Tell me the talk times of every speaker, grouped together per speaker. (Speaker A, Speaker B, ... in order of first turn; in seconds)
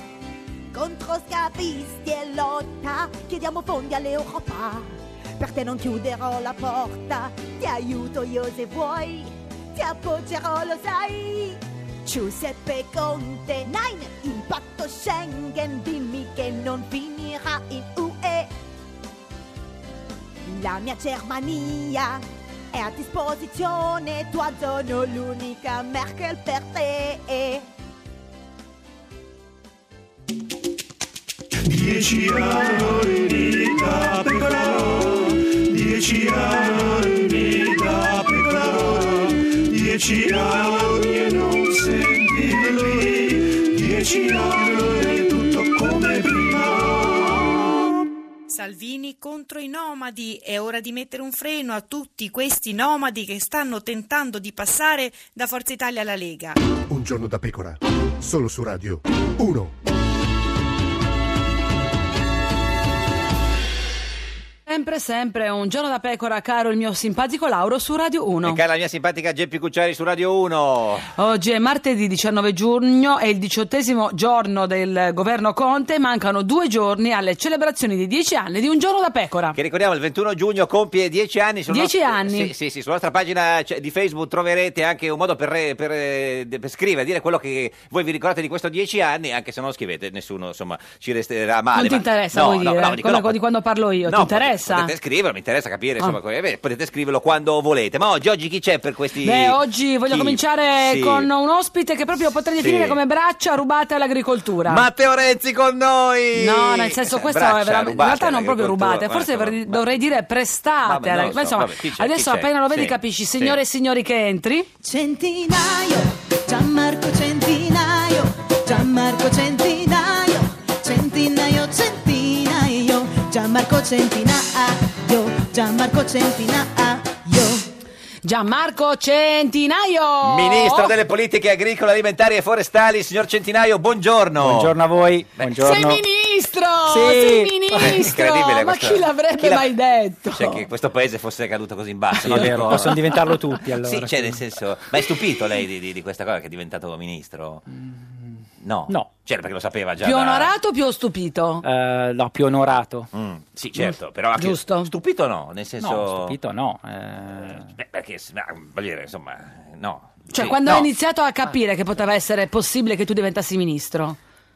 Speaker A: 0.7-18.5, 20.4-27.6, 114.8-127.7
Speaker B: 31.7-47.6
Speaker C: 48.5-56.6
Speaker D: 56.9-59.7
Speaker E: 64.7-68.6, 71.2-79.6, 81.7-82.5, 91.7-94.9, 99.2-104.8, 106.3-114.7, 128.2-130.9, 135.6-140.6, 142.2-142.9, 150.0-151.6, 154.4-154.9, 160.3-164.2
Speaker F: 68.4-71.0, 79.5-93.4, 94.1-101.3, 102.6-103.0, 104.7-109.9, 110.8-113.6, 130.2-134.8, 135.4-135.8, 137.7-139.7, 140.3-147.6, 148.6-150.5, 153.1-156.4, 157.3-160.9
Speaker G: 134.4-136.0, 136.9-138.0, 142.2-144.4, 151.6-153.1, 155.8-157.7